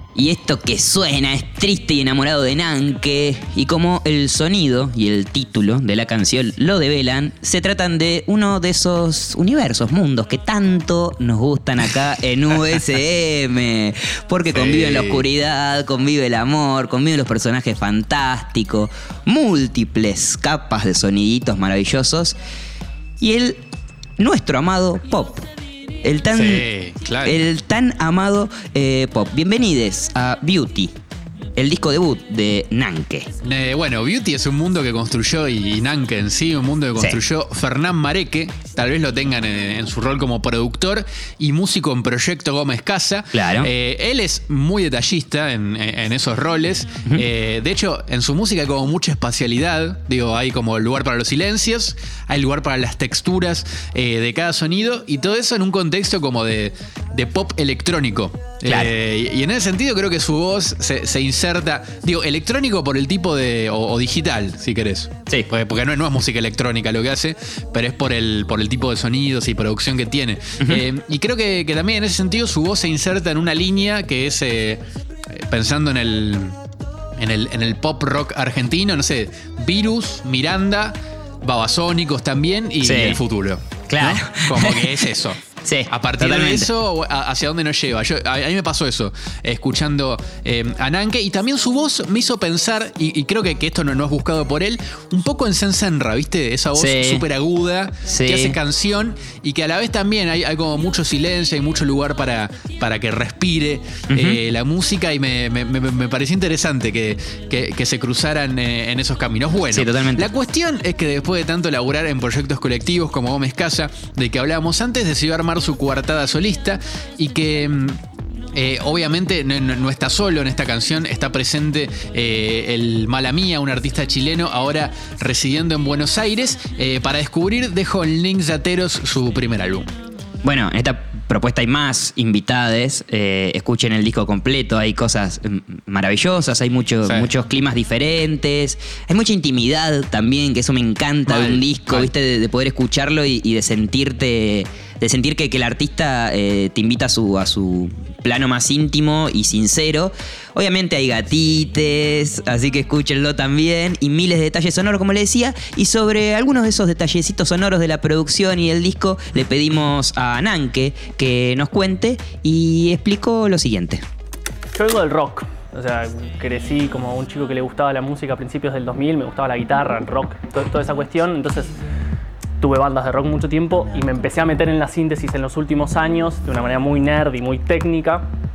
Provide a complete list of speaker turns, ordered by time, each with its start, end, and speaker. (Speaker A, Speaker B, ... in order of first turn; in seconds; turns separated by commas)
Speaker A: 0.1-22.4, Speaker B: 14.5-15.2, Speaker A: 23.2-23.6, Speaker A: 24.2-25.5, Speaker A: 26.0-26.7, Speaker B: 26.3-27.4, Speaker A: 27.2-30.9, Speaker A: 31.6-33.3, Speaker B: 33.4-76.6, Speaker A: 43.3-43.7, Speaker A: 58.6-58.9, Speaker B: 77.2-118.0, Speaker A: 82.8-83.2, Speaker A: 83.9-85.0, Speaker A: 85.6-86.7, Speaker A: 96.8-97.2, Speaker A: 98.1-98.6, Speaker A: 104.1-104.4, Speaker A: 109.7-110.3, Speaker B: 118.5-129.9, Speaker A: 130.4-164.0, Speaker B: 137.0-137.3, Speaker B: 141.3-142.1, Speaker C: 164.8-171.7, Speaker C: 172.6-178.3